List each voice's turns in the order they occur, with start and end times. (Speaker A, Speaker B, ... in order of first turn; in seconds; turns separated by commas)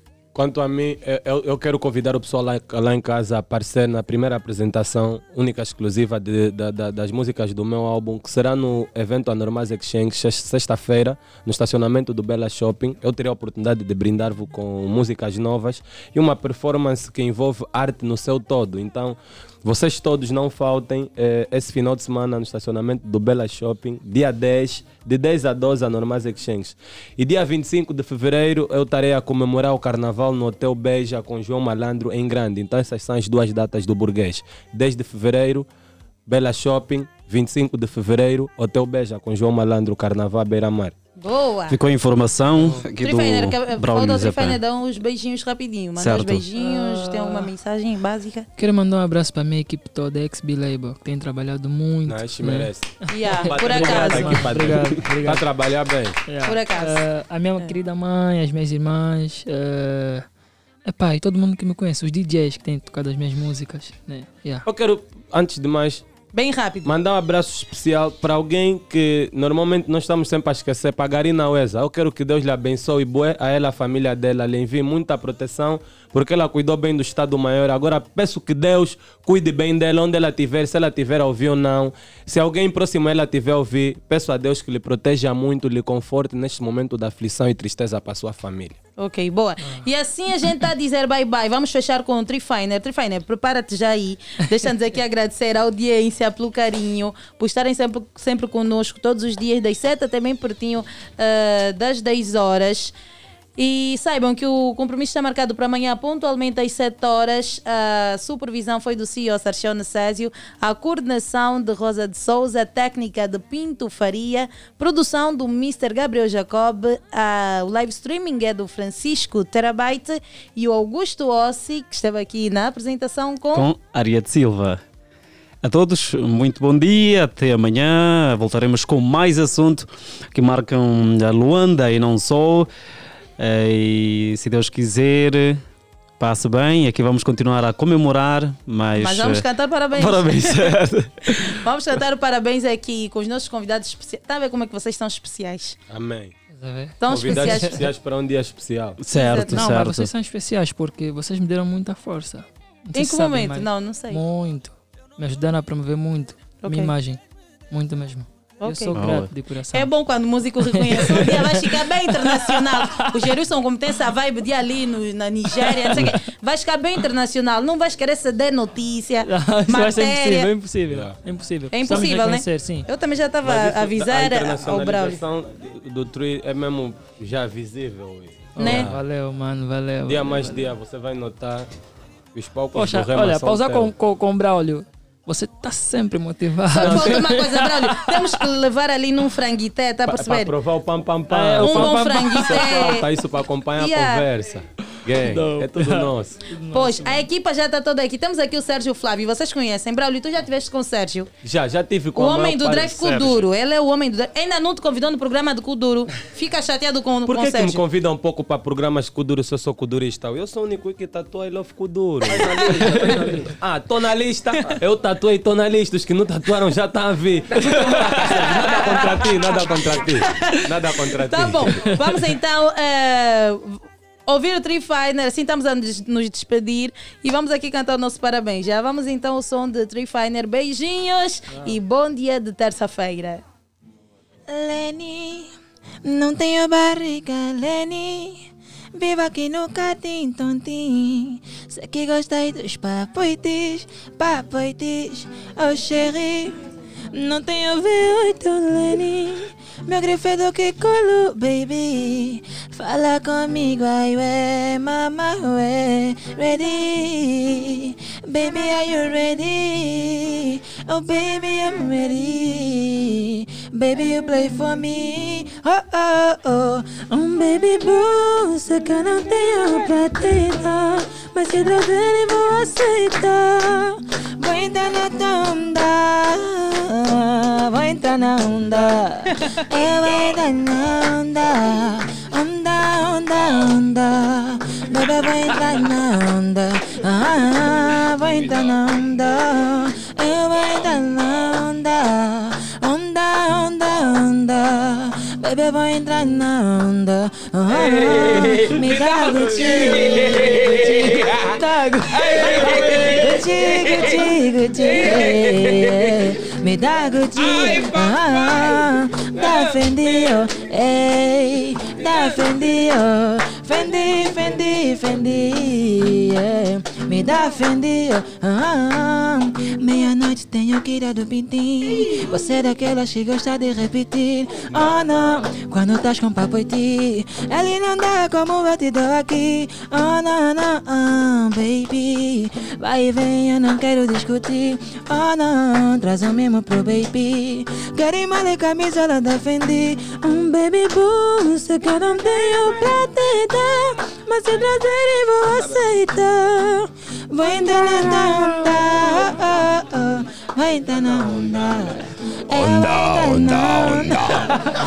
Speaker A: 0.3-35.6, Speaker A: 36.3-40.9, Speaker B: 41.2-41.8, Speaker C: 41.7-44.6, Speaker B: 43.0-48.5, Speaker C: 46.0-46.4, Speaker D: 46.5-47.5, Speaker D: 48.6-52.7, Speaker A: 52.0-52.9, Speaker B: 53.1-54.5, Speaker A: 53.4-56.1, Speaker D: 53.6-55.4, Speaker D: 56.3-60.2, Speaker B: 56.5-57.0, Speaker D: 60.9-64.7, Speaker A: 64.7-66.0, Speaker B: 66.3-66.9, Speaker A: 66.8-88.8, Speaker B: 89.0-102.9, Speaker B: 103.6-123.7, Speaker C: 123.5-124.8, Speaker C: 125.6-132.7, Speaker C: 133.4-135.6, Speaker C: 136.2-139.4, Speaker B: 139.0-140.7, Speaker C: 139.9-141.3, Speaker B: 141.4-145.8, Speaker A: 145.9-146.3, Speaker D: 146.5-147.8, Speaker B: 147.0-147.8, Speaker A: 147.1-149.0, Speaker C: 149.0-150.1, Speaker B: 149.2-149.5, Speaker D: 149.5-157.2, Speaker B: 152.9-154.2, Speaker B: 156.6-156.9, Speaker D: 157.7-159.9, Speaker B: 158.6-158.9, Speaker C: 158.9-159.3, Speaker B: 159.7-170.5, Speaker D: 160.7-163.3, Speaker D: 169.2-172.9, Speaker A: 170.9-171.2, Speaker B: 171.7-175.2, Speaker A: 173.4-179.0, Speaker D: 178.5-180.7, Speaker A: 180.1-181.7, Speaker A: 182.3-183.9, Speaker D: 182.7-188.3, Speaker B: 186.8-190.5, Speaker A: 190.0-196.4, Speaker D: 191.3-192.9, Speaker B: 191.6-193.1, Speaker B: 193.8-194.2, Speaker D: 195.2-197.3, Speaker B: 196.7-201.3, Speaker A: 201.4-203.4, Speaker B: 202.1-207.8, Speaker A: 207.3-221.8, Speaker B: 212.5-212.8, Speaker B: 221.3-233.4, Speaker E: 234.5-235.5, Speaker E: 236.0-301.3, Speaker B: 301.6-302.3, Speaker E: 303.0-354.4